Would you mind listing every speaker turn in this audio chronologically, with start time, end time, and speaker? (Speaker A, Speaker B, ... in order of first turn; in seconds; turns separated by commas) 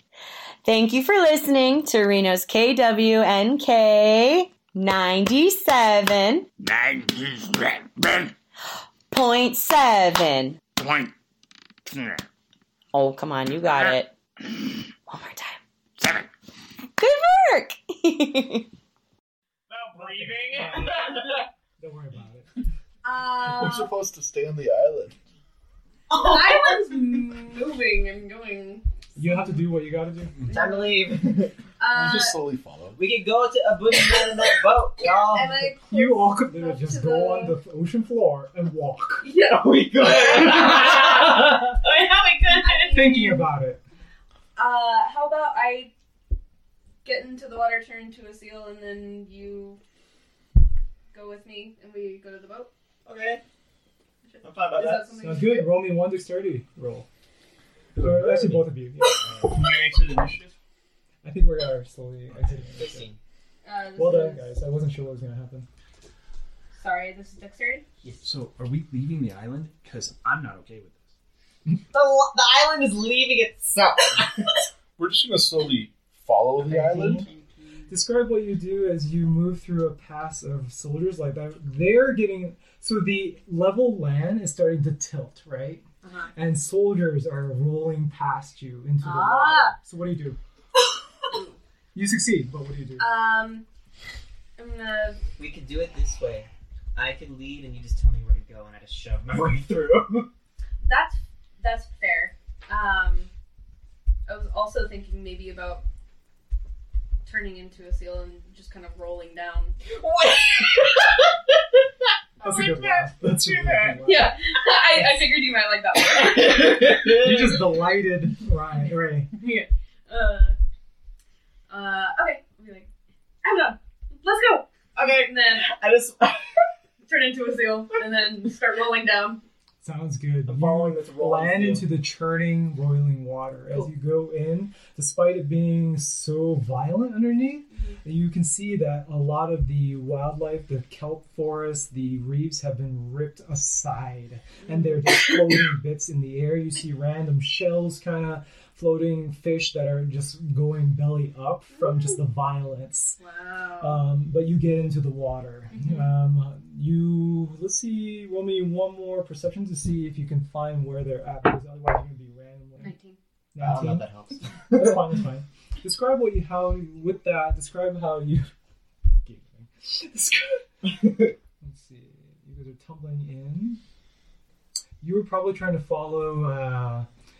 Speaker A: 0.6-6.5, Speaker A: 9.1-10.6, Speaker A: 12.9-14.1, Speaker A: 15.1-16.2, Speaker A: 17.0-18.7, Speaker B: 19.7-21.3, Speaker C: 19.9-21.0, Speaker C: 21.8-22.5, Speaker D: 23.0-23.9, Speaker E: 23.4-25.2, Speaker F: 26.1-27.1, Speaker D: 26.1-28.8, Speaker C: 29.2-30.4, Speaker G: 30.5-31.5, Speaker D: 30.5-31.1, Speaker D: 31.8-32.4, Speaker E: 31.9-33.0, Speaker G: 33.0-35.7, Speaker D: 35.0-37.6, Speaker C: 35.4-39.3, Speaker D: 39.2-41.0, Speaker G: 39.4-41.0, Speaker F: 40.1-43.0, Speaker D: 42.5-43.5, Speaker C: 42.9-43.8, Speaker D: 44.5-45.9, Speaker D: 47.0-49.8, Speaker D: 51.1-52.7, Speaker G: 53.0-53.4, Speaker D: 54.2-55.7, Speaker G: 54.4-55.1, Speaker C: 55.2-57.1, Speaker G: 57.9-59.6, Speaker C: 58.0-59.2, Speaker B: 59.4-60.5, Speaker C: 61.2-63.1, Speaker G: 62.8-63.2, Speaker D: 63.6-64.5, Speaker C: 64.0-65.7, Speaker D: 66.7-67.8, Speaker B: 68.2-71.1, Speaker G: 71.9-74.6, Speaker E: 75.0-77.2, Speaker C: 76.6-77.2, Speaker D: 77.1-77.9, Speaker C: 77.9-90.4, Speaker D: 86.0-86.3, Speaker D: 89.0-89.8, Speaker D: 91.3-91.6, Speaker C: 91.9-93.1, Speaker D: 93.0-93.7, Speaker D: 94.6-95.2, Speaker G: 95.4-100.3, Speaker D: 100.8-103.3, Speaker D: 104.3-105.8, Speaker D: 107.2-109.8, Speaker D: 112.4-117.0, Speaker C: 112.4-114.4, Speaker G: 116.1-117.6, Speaker C: 117.2-119.3, Speaker D: 119.3-120.5, Speaker D: 121.7-122.9, Speaker D: 123.4-125.7, Speaker G: 125.0-126.5, Speaker D: 127.0-129.4, Speaker C: 129.8-153.2, Speaker G: 130.5-131.8, Speaker D: 137.7-138.0, Speaker D: 144.6-145.0, Speaker D: 151.8-152.1, Speaker D: 153.2-154.0, Speaker C: 153.8-162.9, Speaker D: 155.7-156.1, Speaker D: 162.8-163.2, Speaker C: 163.5-164.1, Speaker G: 163.6-165.2, Speaker C: 164.7-168.5, Speaker C: 169.2-173.8, Speaker C: 175.0-177.1